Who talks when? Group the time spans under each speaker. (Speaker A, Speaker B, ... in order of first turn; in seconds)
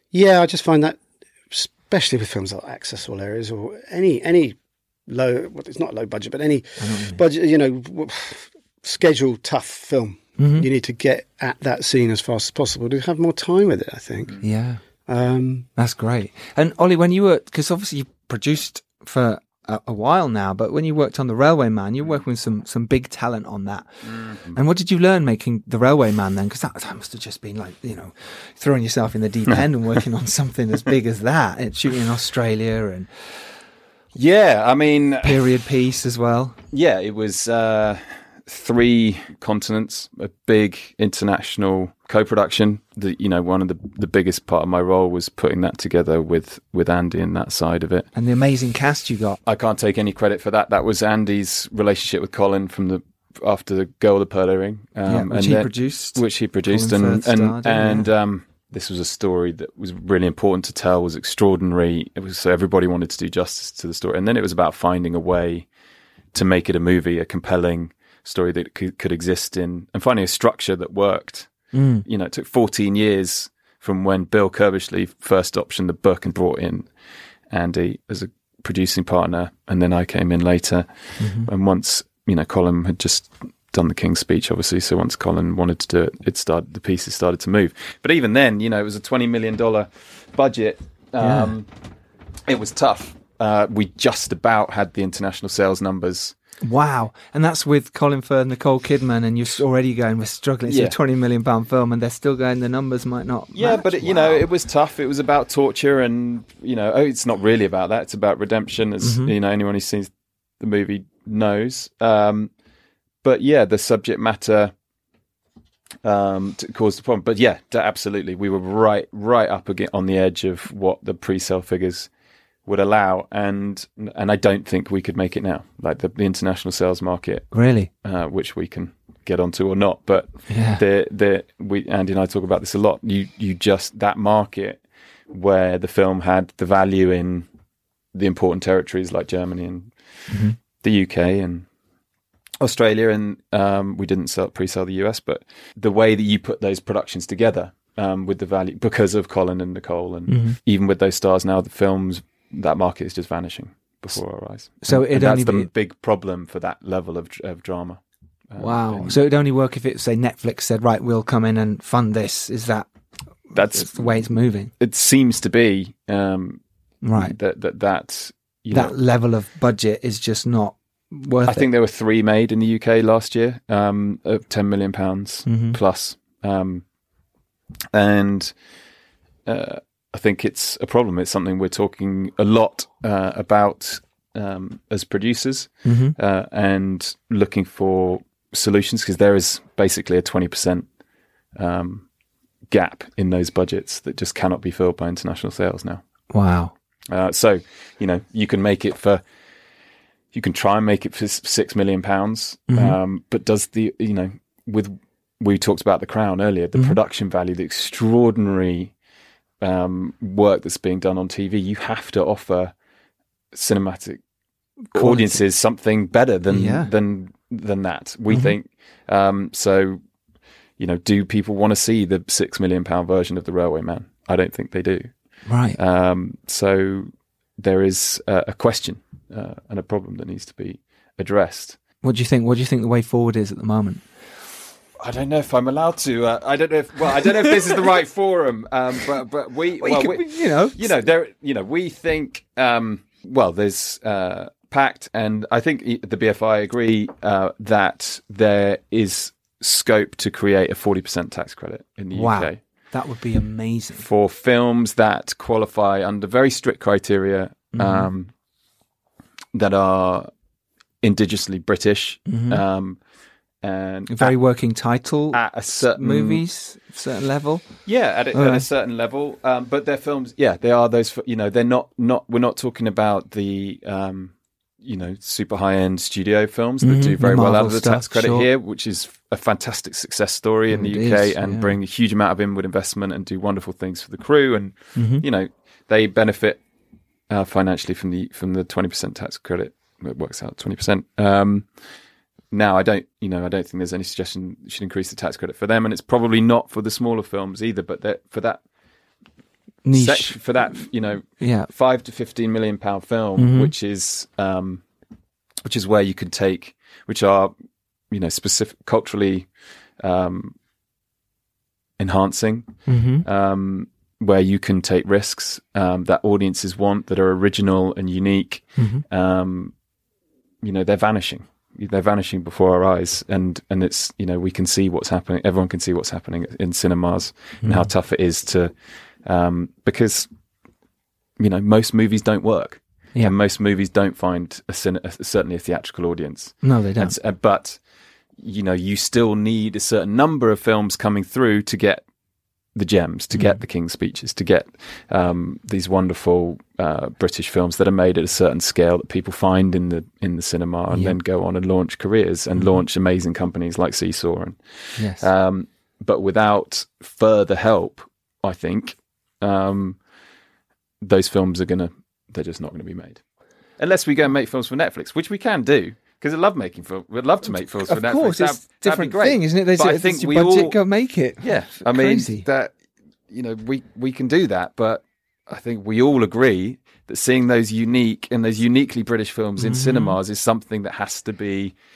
Speaker A: 0.1-14.4, 15.1-15.7
Speaker B: 6.8-7.2, 10.4-10.7, 14.4-14.8, 15.8-23.9, 24.5-33.1, 35.2-36.6, 48.1-49.4, 55.1-58.1, 71.7-72.0, 81.2-81.5, 91.2-91.5, 96.6-104.4, 109.0-109.3, 127.5-127.9, 130.5-130.8, 140.3-140.6, 150.3-150.6, 154.8-155.7, 158.6-162.9, 163.7-164.7, 167.0-167.3, 168.7-171.7, 175.4-175.8, 185.8-186.1, 196.3-196.7, 202.7-203.0, 214.9-215.4, 216.5-216.9, 218.3-218.5, 225.4-225.8, 232.0-234.0, 239.8-240.9, 252.1-254.0, 257.7-258.1, 262.3-262.6, 264.1-268.6, 276.8-278.5, 280.7-281.7, 284.9-285.2, 299.9-300.9, 301.4-301.7, 303.4-303.7, 312.9-313.2, 318.8-319.0, 327.6-327.9, 336.6-337.1, 343.3-343.6, 350.9-351.2, 352.6-352.8, 355.0-355.2, 367.5-372.4, 379.6-380.2
Speaker C: 24.0-24.6, 34.1-35.4, 36.7-48.1, 49.4-65.7, 66.3-76.9, 77.5-91.7, 92.5-96.3, 100.7-101.0, 103.5-112.5, 113.2-114.7, 116.0-122.1, 122.6-137.5, 138.1-141.7, 142.6-159.2, 163.5-166.6, 167.1-169.0, 171.4-176.8, 177.9-178.5, 179.4-190.9, 191.5-192.1, 192.7-196.0, 197.1-199.2, 200.3-208.9, 209.6-212.7, 213.5-214.2, 214.9-220.0, 220.8-231.8, 235.0-252.6, 254.0-258.3, 259.5-260.3, 261.0-263.0, 263.6-264.4, 265.3-266.4, 267.9-286.6, 287.3-291.9, 292.5-298.6, 299.9-304.8, 305.6-307.5, 308.1-310.5, 312.0-319.7, 320.6-330.3, 331.4-337.8, 338.4-342.0, 342.7-360.0, 361.0-363.2, 363.8-370.8, 371.4-372.7, 373.3-381.8